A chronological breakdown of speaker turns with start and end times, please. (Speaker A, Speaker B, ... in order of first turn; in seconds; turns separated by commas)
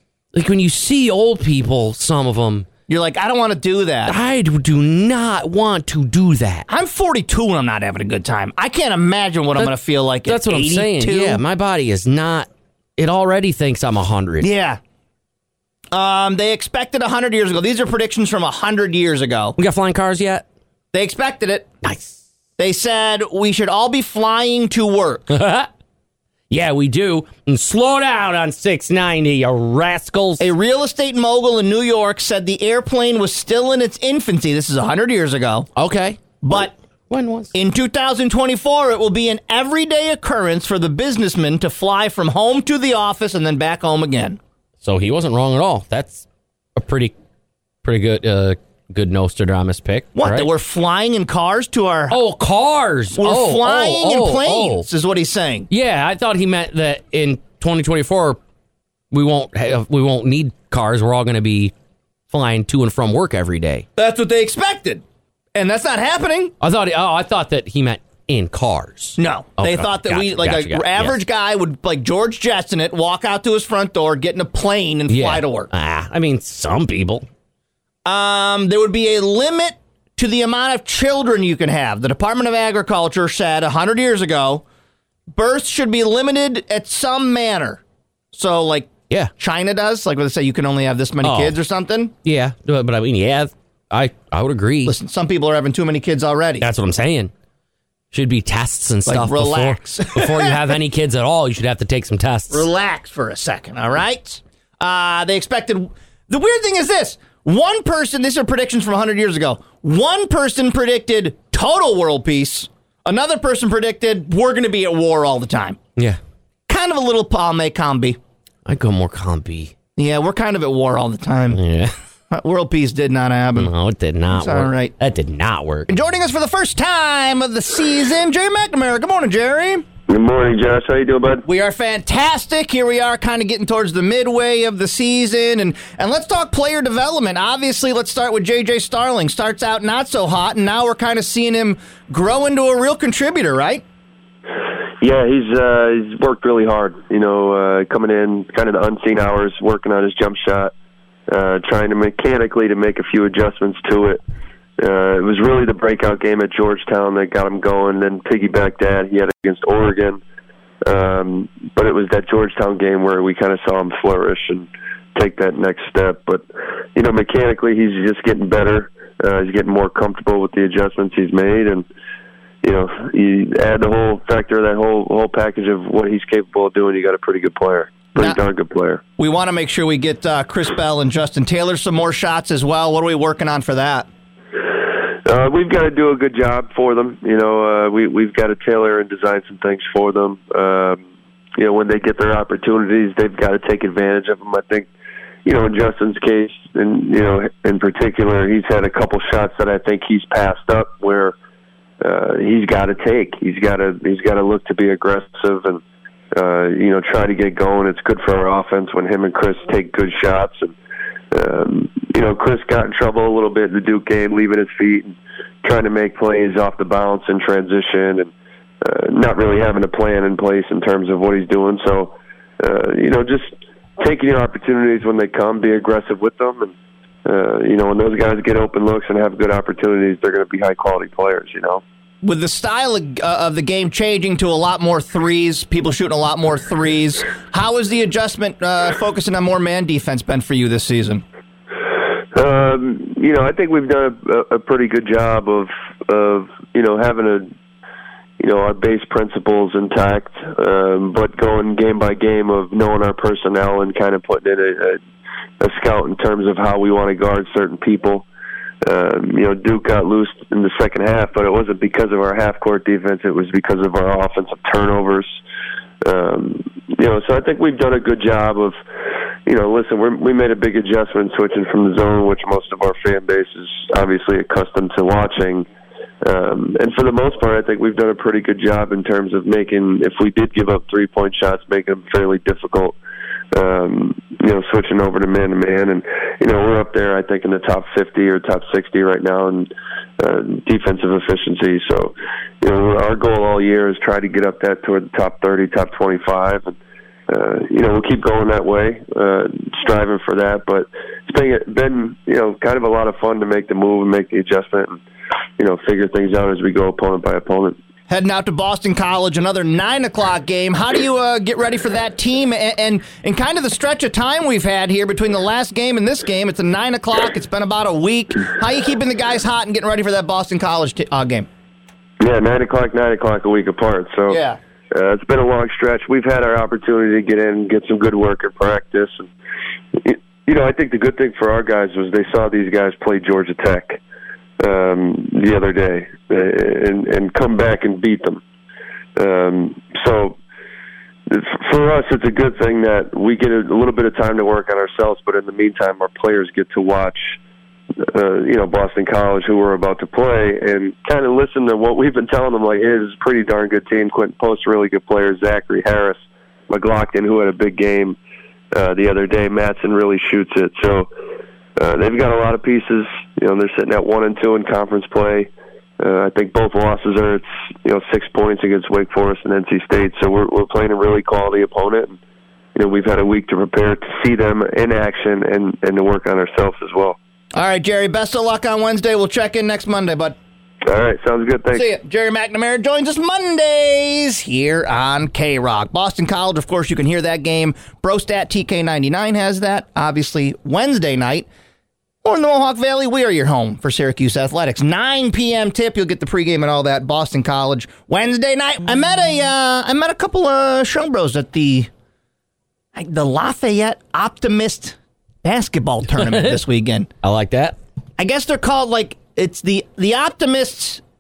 Speaker A: 0.3-2.7, Speaker B: 2.9-4.1, Speaker A: 4.1-6.7, Speaker B: 6.7-11.4, Speaker A: 9.6-14.5, Speaker B: 14.4-14.8, Speaker B: 15.9-19.6, Speaker A: 19.6-20.4, Speaker B: 20.9-21.7, Speaker A: 21.8-22.2, Speaker B: 22.6-25.3, Speaker A: 25.3-25.7, Speaker A: 26.5-30.5, Speaker B: 30.4-35.7, Speaker A: 35.8-36.6, Speaker B: 36.4-36.7, Speaker A: 37.1-37.5, Speaker B: 37.5-44.4, Speaker A: 44.8-47.1, Speaker A: 47.8-50.5, Speaker B: 50.1-52.2, Speaker A: 52.1-54.9, Speaker B: 53.1-55.7, Speaker A: 55.7-58.4, Speaker A: 59.1-61.7, Speaker A: 62.3-63.9, Speaker B: 64.0-65.0, Speaker B: 65.5-66.5, Speaker A: 66.6-71.2, Speaker B: 69.2-75.7, Speaker A: 75.1-77.3, Speaker B: 78.0-84.6, Speaker B: 85.3-87.8, Speaker B: 88.3-92.1, Speaker A: 91.2-91.6, Speaker A: 92.2-94.9, Speaker B: 94.9-96.7, Speaker A: 96.6-97.3, Speaker A: 98.1-102.7, Speaker B: 99.1-100.8, Speaker B: 102.5-115.8, Speaker B: 116.7-118.2, Speaker A: 118.7-119.7, Speaker B: 120.0-121.6, Speaker A: 121.5-121.9, Speaker B: 122.3-123.7, Speaker A: 123.6-125.9, Speaker B: 124.3-124.9, Speaker B: 125.9-129.9, Speaker C: 130.1-131.4, Speaker B: 131.4-143.8, Speaker C: 145.0-150.7, Speaker C: 151.3-154.2, Speaker C: 154.8-160.2, Speaker C: 160.9-166.4, Speaker C: 166.9-171.9, Speaker C: 172.6-179.0, Speaker B: 179.2-184.1, Speaker C: 185.2-191.0, Speaker C: 191.6-194.9, Speaker C: 195.4-201.4, Speaker C: 202.0-205.8, Speaker C: 206.3-210.8, Speaker C: 211.3-226.7, Speaker C: 227.2-231.8, Speaker B: 232.2-241.2, Speaker C: 242.3-247.5, Speaker C: 248.4-255.0, Speaker C: 255.6-258.3, Speaker C: 258.9-265.4, Speaker C: 266.1-268.8, Speaker C: 269.5-275.7, Speaker C: 276.2-283.0, Speaker C: 283.5-296.8, Speaker C: 297.3-305.0, Speaker C: 305.6-307.8, Speaker B: 308.1-321.5, Speaker C: 322.2-324.4, Speaker B: 324.3-324.6, Speaker C: 324.9-329.3, Speaker C: 330.0-334.0, Speaker C: 334.6-338.4, Speaker C: 339.2-340.4, Speaker C: 341.3-347.4, Speaker C: 348.1-358.2, Speaker C: 358.7-361.1, Speaker C: 361.8-372.2, Speaker C: 372.8-377.2, Speaker B: 377.5-380.4, Speaker C: 380.9-381.9, Speaker B: 381.7-391.5, Speaker B: 392.2-401.9, Speaker B: 402.9-407.1, Speaker A: 406.1-406.6, Speaker A: 407.2-407.8, Speaker B: 408.2-411.0